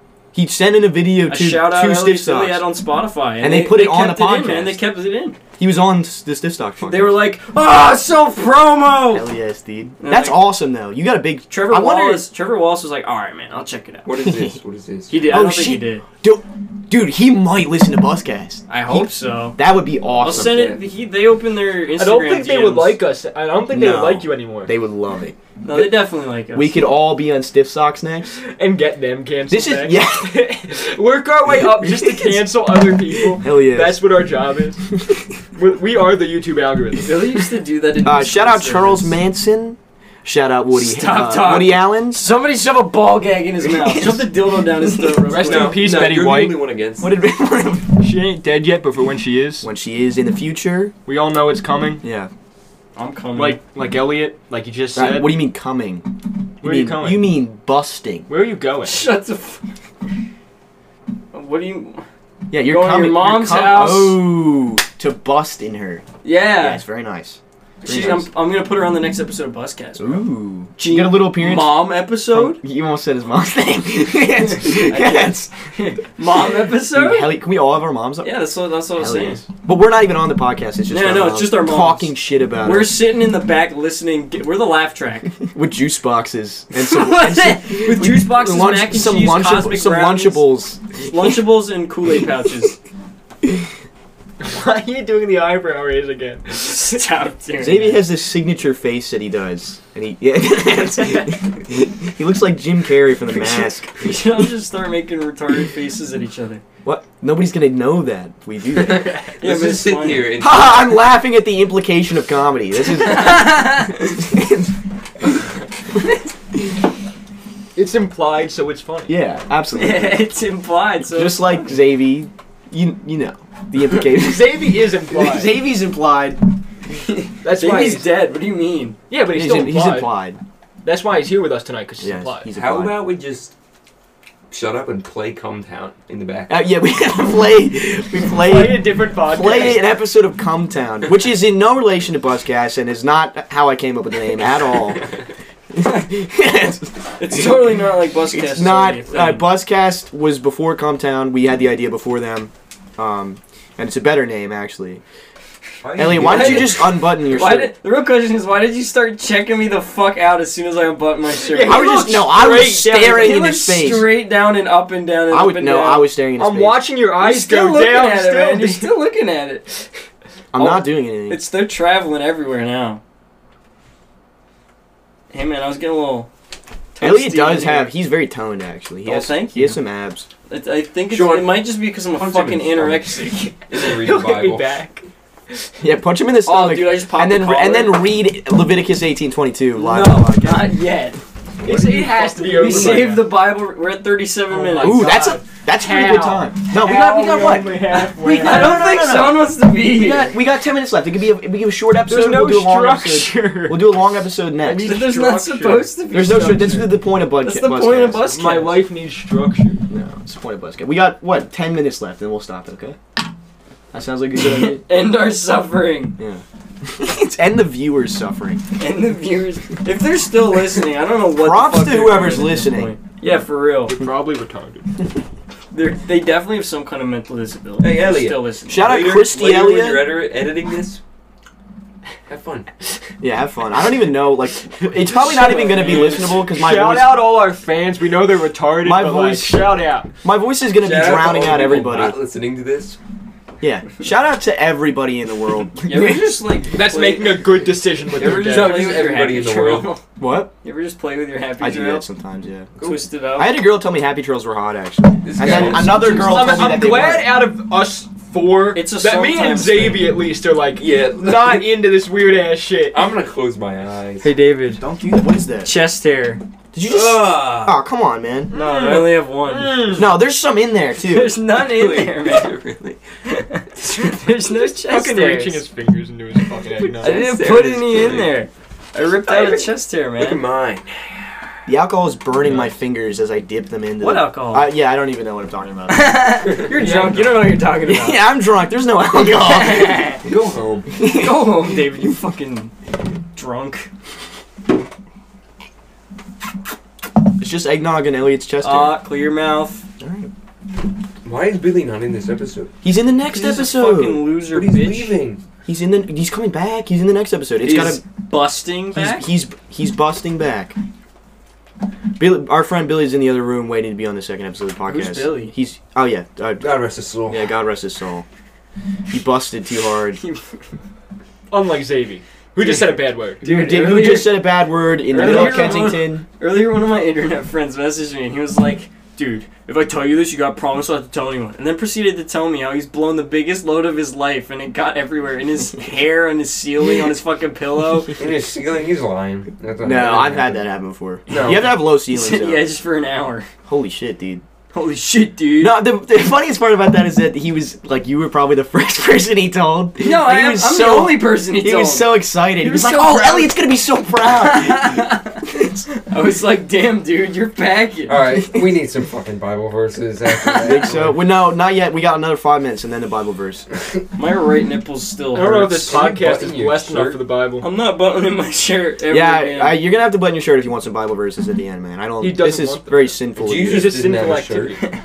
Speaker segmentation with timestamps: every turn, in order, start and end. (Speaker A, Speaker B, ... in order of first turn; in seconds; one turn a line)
Speaker A: 0.3-2.7
Speaker B: 1.3-5.4
Speaker A: 3.4-4.8
Speaker A: 5.6-7.3
Speaker B: 6.8-9.3
Speaker A: 9.1-12.3
Speaker B: 10.0-10.5
Speaker B: 11.5-14.1
Speaker C: 14.0-15.1
Speaker B: 15.1-16.1
Speaker A: 15.2-20.8
Speaker B: 18.7-19.6
Speaker B: 20.2-23.0
Speaker C: 20.3-20.8
Speaker D: 22.0-24.8
Speaker A: 23.7-28.4
Speaker B: 25.6-26.9
Speaker D: 28.4-34.8
Speaker A: 29.5-30.4
Speaker A: 31.5-32.4
Speaker A: 33.1-34.0
Speaker D: 35.5-37.2
Speaker B: 37.0-39.1
Speaker A: 38.0-42.2
Speaker B: 40.7-45.9
Speaker A: 43.8-45.0
Speaker D: 45.2-46.7
Speaker C: 45.4-47.2
Speaker A: 47.0-48.1
Speaker D: 48.0-49.7
Speaker A: 49.6-50.9
Speaker D: 51.0-52.0
Speaker A: 52.0-52.3
Speaker B: 53.0-53.6
Speaker D: 53.4-55.4
Speaker A: 54.9-58.3
Speaker D: 56.6-57.4
Speaker D: 58.3-59.1
Speaker B: 58.9-59.6
Speaker B: 61.3-62.0
Speaker A: 62.5-66.0
Speaker B: 62.6-64.2
Speaker B: 66.2-66.8
Speaker A: 66.6-68.3
Speaker B: 67.8-72.6
Speaker A: 70.0-75.5
Speaker B: 74.5-77.4
Speaker A: 76.9-78.4
Speaker B: 78.2-79.4
Speaker A: 78.9-83.0
Speaker B: 80.9-85.3
Speaker A: 85.4-90.8
Speaker B: 86.7-90.5
Speaker B: 91.1-92.8
Speaker D: 94.4-97.0
Speaker B: 96.6-98.0
Speaker A: 97.6-104.1
Speaker B: 103.3-106.6
Speaker A: 106.8-109.2
Speaker C: 108.8-111.0
Speaker B: 109.4-110.3
Speaker A: 110.4-114.7
Speaker B: 113.0-114.0
Speaker D: 117.8-119.2
Speaker A: 119.1-120.3
Speaker B: 119.8-121.7
Speaker A: 121.1-126.5
Speaker D: 124.1-125.5
Speaker D: 127.4-128.1
Speaker B: 127.4-129.0
Speaker D: 129.1-130.1
Speaker A: 129.2-130.4
Speaker D: 130.8-132.5
Speaker A: 132.0-133.1
Speaker C: 132.5-133.5
Speaker C: 134.5-136.7
Speaker A: 136.5-145.0
Speaker D: 138.4-139.8
Speaker A: 145.7-155.0
Speaker B: 147.2-149.5
Speaker C: 155.8-156.8
Speaker A: 156.0-157.7
Speaker B: 156.1-162.0
Speaker D: 161.5-163.2
Speaker A: 161.6-164.1
Speaker B: 162.6-166.1
Speaker A: 165.3-166.8
Speaker D: 166.4-168.9
Speaker B: 167.2-169.7
Speaker A: 170.5-171.4
Speaker B: 170.5-173.0
Speaker B: 175.3-176.3
Speaker B: 176.9-177.9
Speaker A: 177.0-180.3
Speaker B: 179.0-179.8
Speaker B: 180.5-183.5
Speaker C: 181.1-183.1
Speaker C: 183.7-184.8
Speaker D: 183.8-185.1
Speaker A: 185.8-190.7
Speaker B: 186.4-188.1
Speaker B: 189.8-191.2
Speaker C: 191.6-193.2
Speaker D: 191.6-193.3
Speaker B: 192.5-195.1
Speaker D: 194.5-199.0
Speaker A: 194.8-205.0
Speaker B: 198.2-200.3
Speaker D: 202.1-204.0
Speaker D: 204.6-205.9
Speaker B: 204.8-208.8
Speaker A: 206.1-208.3
Speaker D: 208.3-209.8
Speaker A: 209.9-213.0
Speaker A: 213.9-214.8
Speaker B: 214.8-216.2
Speaker A: 216.2-218.6
Speaker B: 218.8-224.0
Speaker A: 221.3-222.9
Speaker D: 223.9-224.9
Speaker B: 225.7-228.9
Speaker C: 227.8-231.0
Speaker A: 228.7-230.2
Speaker C: 232.3-232.7
Speaker A: 233.2-237.2
Speaker B: 235.0-236.3
Speaker D: 235.1-240.1
Speaker A: 238.8-239.7
Speaker A: 240.2-242.2
Speaker C: 240.8-243.0
Speaker A: 243.6-246.5
Speaker B: 245.8-247.4
Speaker D: 246.7-249.0
Speaker C: 248.1-249.9
Speaker B: 248.2-250.0
Speaker A: 250.2-250.5
Speaker B: 250.6-252.1
Speaker A: 251.6-252.7
Speaker C: 252.8-253.0
Speaker B: 252.8-253.6
Speaker A: 253.3-257.4
Speaker C: 255.2-256.5
Speaker D: 255.8-263.1
Speaker B: 258.7-260.1
Speaker C: 260.8-261.7
Speaker C: 262.9-264.3
Speaker B: 264.2-264.8
Speaker A: 264.8-265.7
Speaker B: 265.6-266.4
Speaker A: 266.7-268.5
Speaker C: 266.9-267.7
Speaker B: 267.2-267.5
Speaker B: 268.5-269.9
Speaker D: 268.5-270.1
Speaker A: 269.9-271.3
Speaker B: 271.0-272.5
Speaker C: 271.5-273.0
Speaker B: 273.2-275.6
Speaker D: 274.8-277.3
Speaker C: 276.9-278.4
Speaker B: 277.0-280.4
Speaker C: 279.0-281.3
Speaker A: 281.7-286.5
Speaker D: 282.4-282.7
Speaker B: 284.0-284.7
Speaker B: 285.9-288.3
Speaker D: 286.7-287.5
Speaker A: 287.8-290.1
Speaker B: 289.3-290.2
Speaker C: 290.2-290.9
Speaker A: 291.0-291.8
Speaker B: 291.1-292.7
Speaker B: 293.3-293.9
Speaker A: 297.4-299.0
Speaker B: 298.6-299.8
Speaker A: 300.0-300.3
Speaker C: 301.2-302.7
Speaker A: 302.8-304.3
Speaker B: 303.2-305.1
Speaker C: 304.5-305.4
Speaker A: 305.6-308.0
Speaker B: 307.6-309.3
Speaker A: 308.9-310.8
Speaker A: 312.2-316.7
Speaker B: 314.9-315.5
Speaker C: 316.6-317.6
Speaker A: 317.2-318.2
Speaker A: 319.1-320.2
Speaker D: 321.5-323.4
Speaker B: 322.6-324.5
Speaker A: 323.4-326.2
Speaker B: 325.1-338.1
Speaker D: 325.2-325.8
Speaker C: 338.1-340.6
Speaker A: 339.8-342.6
Speaker C: 341.3-341.6
Speaker B: 341.3-343.5
Speaker A: 343.7-344.4
Speaker B: 344.7-345.9
Speaker A: 345.6-355.1
Speaker B: 350.0-353.6
Speaker B: 354.2-358.2
Speaker C: 358.1-361.2
Speaker B: 360.4-360.9
Speaker A: 360.6-363.6
Speaker B: 364.1-366.1
Speaker D: 365.3-367.7
Speaker C: 365.9-367.2
Speaker B: 367.6-369.8
Speaker A: 369.1-374.0
Speaker D: 372.2-374.8
Speaker C: 373.4-374.8